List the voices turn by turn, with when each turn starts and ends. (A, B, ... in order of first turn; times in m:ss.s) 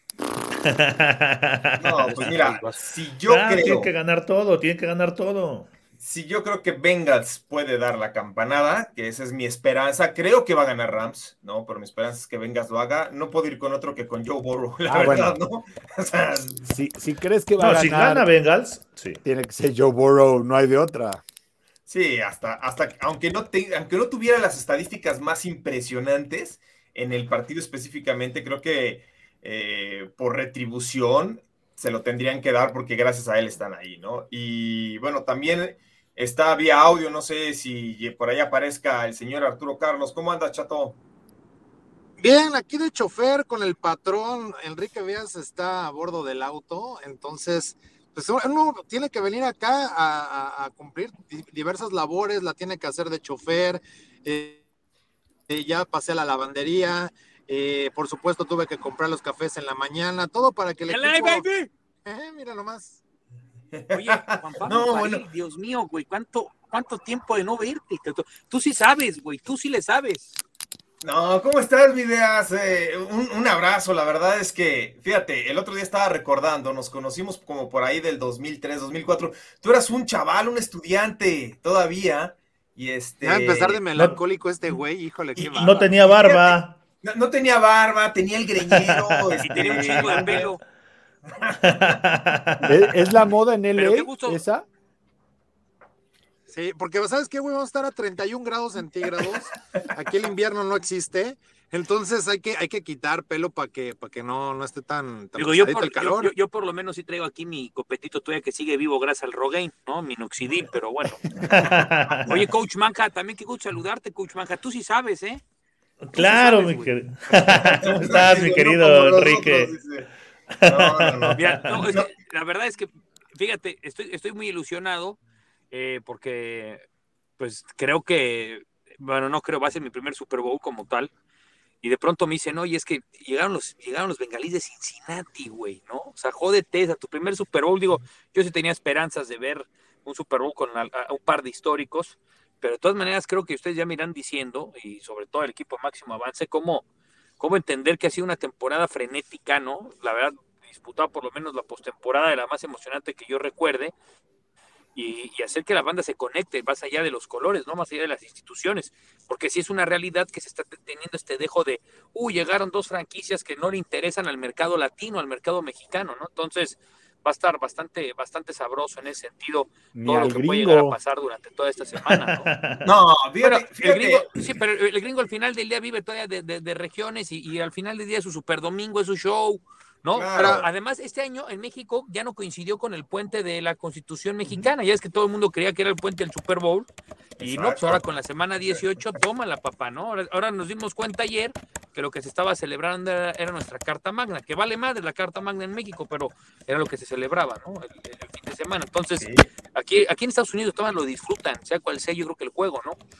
0:00.6-0:05.7 A
0:01.8-0:03.9 B
0:06.0-0:16.8 B
0:14.9-0:15.4 C
0:16.7-0:18.3 C
0:17.6-0:19.2 A
0:19.2-0:21.2 C
0:21.9-0:41.0 B
0:42.2-0:54.6 D
0:55.5-1:01.5 D
1:00.9-1:01.7 E
1:02.0-1:03.0 D
1:03.7-1:05.2 B
1:03.9-1:10.4 E
1:11.0-1:23.8 B
1:23.2-1:25.9 D
1:25.4-1:30.6 B
1:25.6-1:26.8 A
1:28.7-1:30.5 A
1:29.4-1:30.6 E
1:31.4-1:32.0 B
1:31.6-1:33.1 A
1:32.6-1:34.6 C
1:33.8-1:34.4 E
1:36.5-1:46.3 D
1:45.4-1:51.7 E
1:51.4-1:52.4 A
1:52.2-1:55.4 E
1:56.0-1:59.7 A
1:56.1-1:56.9 E
1:57.5-2:00.1 B
2:00.6-2:01.9 A
2:00.6-2:02.1 B
2:01.3-2:05.2 E
2:05.7-2:06.8 E
2:07.4-2:11.1 E
2:11.8-2:26.8 E
2:27.4-2:33.9 E
2:34.9-2:52.5 E
2:49.9-2:51.0 C
2:52.0-2:52.8 A
2:52.8-2:54.2 B
2:53.4-3:23.0 E
3:00.1-3:00.6 B
3:00.4-3:00.6 D
3:07.4-3:08.0 B
3:19.2-3:19.5 B